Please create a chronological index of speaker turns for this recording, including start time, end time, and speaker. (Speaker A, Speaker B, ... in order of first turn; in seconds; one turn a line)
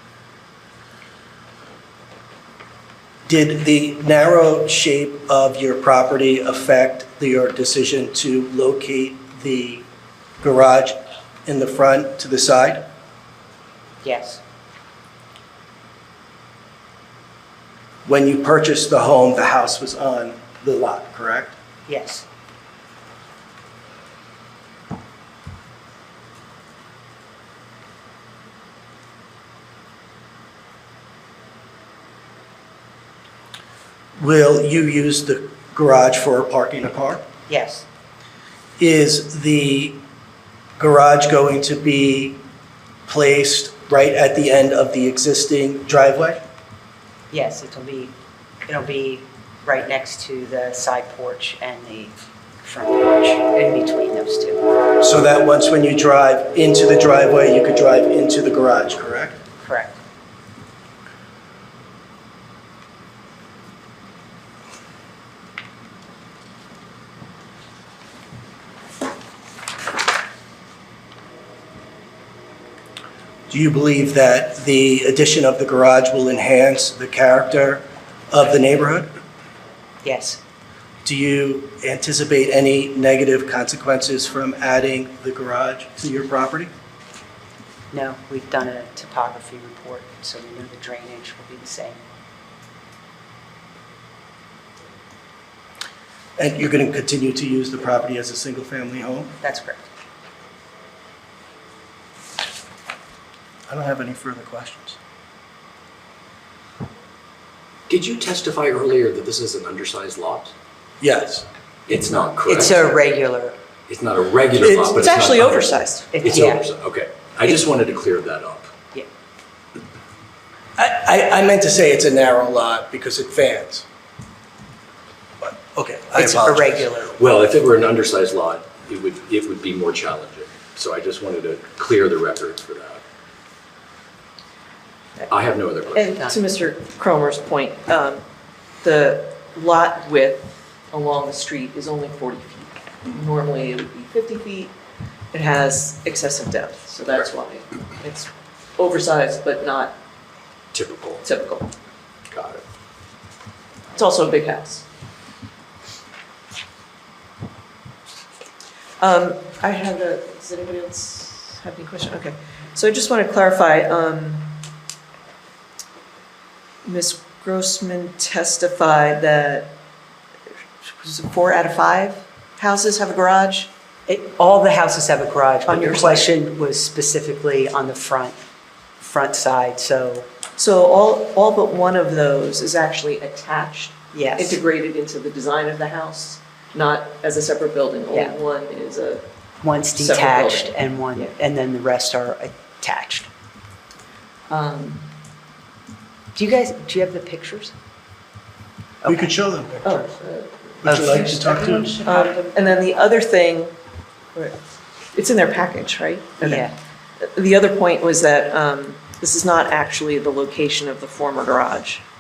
Speaker A: 3.3-9.8
Speaker A: 10.4-12.8
Speaker B: 14.0-14.4
Speaker A: 18.1-21.6
Speaker B: 21.9-22.2
Speaker A: 34.2-37.2
Speaker B: 37.5-37.9
Speaker A: 38.8-40.0
Speaker A: 40.8-42.4
Speaker A: 43.1-46.4
Speaker B: 47.3-48.1
Speaker B: 48.7-54.6
Speaker A: 55.0-59.4
Speaker B: 59.6-60.0
Speaker A: 73.5-79.1
Speaker B: 80.0-80.4
Speaker A: 81.0-86.7
Speaker B: 87.9-92.0
Speaker A: 96.4-99.3
Speaker B: 99.4-99.8
Speaker A: 103.7-105.0
Speaker C: 107.9-110.5
Speaker A: 111.0-111.5
Speaker C: 111.9-112.9
Speaker B: 112.4-113.5
Speaker C: 113.9-118.7
Speaker D: 114.7-116.1
Speaker B: 116.1-116.6
Speaker A: 120.8-123.8
Speaker A: 125.4-126.9
Speaker B: 126.1-127.2
Speaker C: 127.2-133.0
Speaker C: 135.3-136.1
Speaker D: 135.9-138.2
Speaker B: 136.1-136.4
Speaker D: 138.8-144.7
Speaker D: 145.3-149.9
Speaker C: 150.7-151.2
Speaker D: 151.2-151.7
Speaker C: 152.3-152.6
Speaker D: 153.9-154.8
Speaker D: 159.0-164.6
Speaker D: 166.8-169.7
Speaker D: 170.8-173.7
Speaker B: 174.1-178.4
Speaker D: 175.7-176.3
Speaker B: 179.0-180.3
Speaker D: 180.6-189.2
Speaker B: 184.1-184.6
Speaker B: 188.1-188.3
Speaker B: 189.6-193.3
Speaker D: 189.9-191.3
Speaker D: 194.5-195.1
Speaker B: 196.3-197.7
Speaker B: 199.0-199.3
Speaker A: 199.1-200.0
Speaker D: 199.8-200.5
Speaker A: 200.8-202.0
Speaker B: 200.8-202.4
Speaker D: 202.0-203.7
Speaker D: 205.1-206.7
Speaker B: 206.4-206.7
Speaker D: 207.2-212.0